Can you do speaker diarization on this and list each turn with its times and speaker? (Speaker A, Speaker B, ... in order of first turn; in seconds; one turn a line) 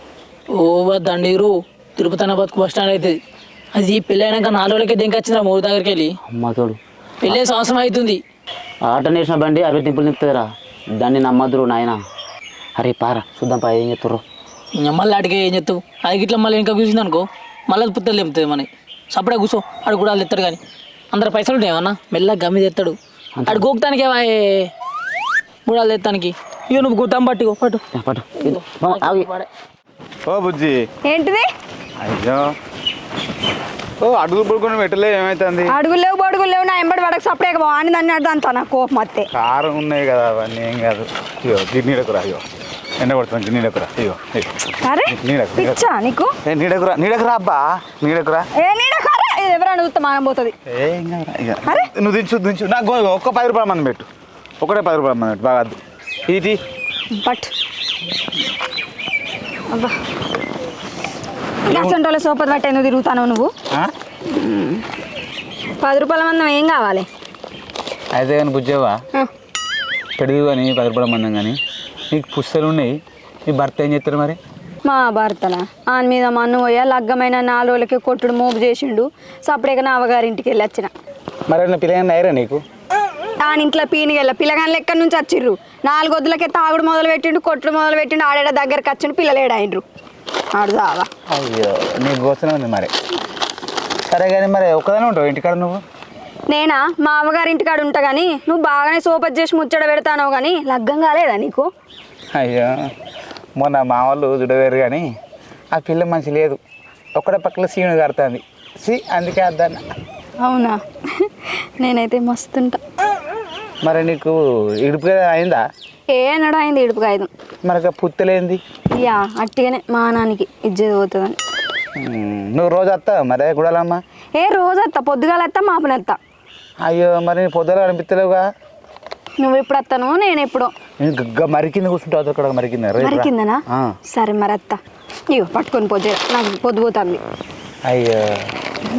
Speaker A: 0.6-3.2
Speaker A: 3.7-6.1
Speaker B: 6.3-7.4
Speaker A: 7.2-8.2
Speaker B: 8.9-10.5
Speaker B: 11.0-12.0
Speaker B: 12.8-14.2
Speaker A: 14.8-20.6
Speaker A: 21.1-22.9
Speaker B: 23.4-23.6
Speaker A: 23.5-24.7
Speaker A: 25.7-27.8
Speaker B: 27.9-29.3
Speaker A: 28.4-29.5
Speaker C: 30.3-30.8
Speaker D: 31.1-31.5
Speaker C: 32.0-32.5
Speaker C: 34.0-35.7
Speaker D: 35.7-39.3
Speaker C: 39.3-42.4
Speaker C: 43.0-45.8
Speaker D: 44.8-46.3
Speaker C: 46.5-48.5
Speaker D: 48.6-50.5
Speaker C: 50.7-54.1
Speaker C: 54.6-56.6
Speaker D: 57.1-57.5
Speaker C: 61.7-62.0
Speaker D: 61.7-63.5
Speaker D: 64.3-64.8
Speaker D: 65.8-67.1
Speaker C: 68.1-69.0
Speaker C: 70.2-71.6
Speaker C: 72.1-73.0
Speaker C: 73.5-74.4
Speaker D: 74.8-80.9
Speaker C: 81.5-82.6
Speaker D: 83.4-89.8
Speaker D: 90.5-91.1
Speaker C: 91.3-92.9
Speaker C: 94.1-95.8
Speaker D: 96.5-101.7
Speaker C: 102.3-102.9
Speaker C: 103.6-105.1
Speaker C: 105.7-106.6
Speaker C: 107.2-109.8
Speaker D: 110.4-112.8
Speaker C: 113.8-115.6
Speaker D: 116.1-117.3
Speaker C: 117.7-118.6
Speaker D: 119.0-121.4
Speaker C: 122.0-124.0
Speaker D: 124.4-126.2
Speaker C: 126.8-128.4
Speaker D: 129.4-130.7
Speaker C: 131.0-133.9
Speaker D: 133.0-134.8
Speaker D: 135.3-137.2
Speaker C: 137.8-138.5